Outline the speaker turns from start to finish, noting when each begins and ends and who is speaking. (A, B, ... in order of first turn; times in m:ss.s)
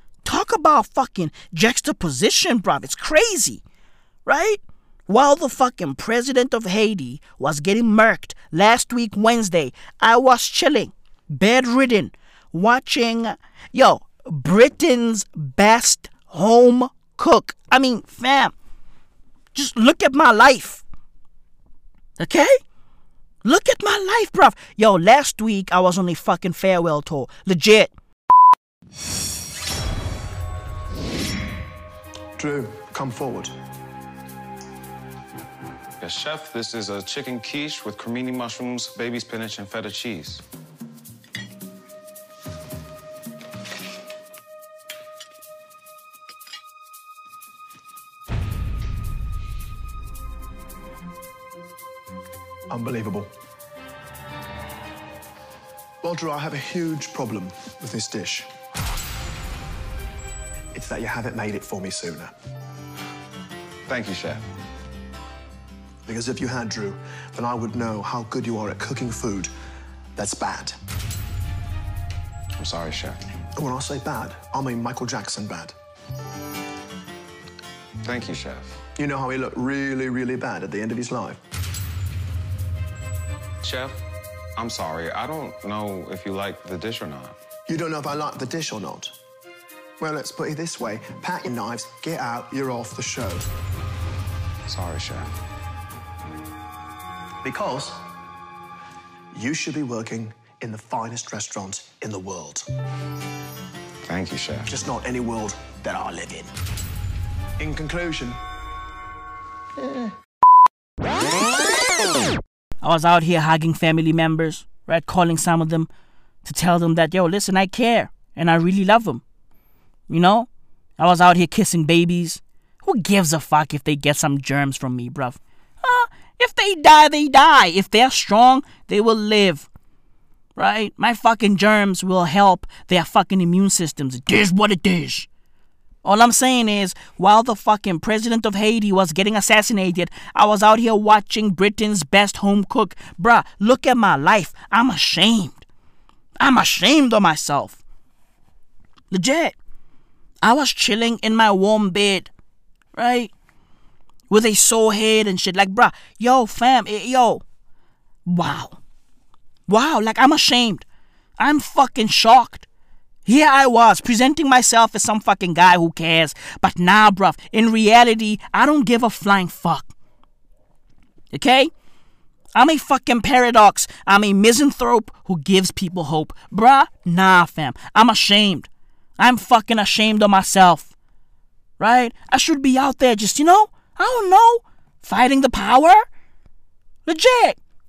0:00.2-0:03.6 A
0:04.2-0:18.5 A
0:19.5-0:20.8 A
0:22.2-0:22.6 A
0:23.4-0:27.9 A
0:32.4-0:33.6 B
0:36.0-0:40.4 C
0:52.7-0:53.3 B
0:56.0-0:58.5 B
1:00.7-1:02.3 B
1:03.9-1:04.4 C
1:06.0-1:09.5 B
1:10.2-1:10.8 B
1:12.6-1:13.2 C
1:13.5-1:15.7 B
1:18.0-1:18.8 C
1:19.0-1:21.4 B
1:23.6-1:24.0 C
1:24.6-1:27.4 C
1:27.7-1:29.1 B
1:30.0-1:33.4 B
1:34.7-1:35.3 C
1:37.4-1:38.0 B
1:39.3-1:42.7 B
1:44.0-1:44.7 C
1:44.7-1:46.5 B
1:47.6-1:48.4 B
1:52.8-1:55.9 A
1:56.4-1:59.2 A
2:00.1-2:09.7 A
2:10.6-2:15.3 A
2:16.0-2:25.6 A
2:26.4-2:27.8 A
2:29.1-2:29.5 A
2:30.4-2:32.3 A
2:32.9-2:33.3 A
2:34.3-2:37.4 A
2:38.3-2:38.8 A
2:39.7-2:40.8 A
2:41.4-2:42.6 A
2:43.2-2:49.9 A
2:51.3-2:51.7 A
2:52.5-3:00.9 A
3:01.8-3:06.0 A
3:07.0-3:07.6 A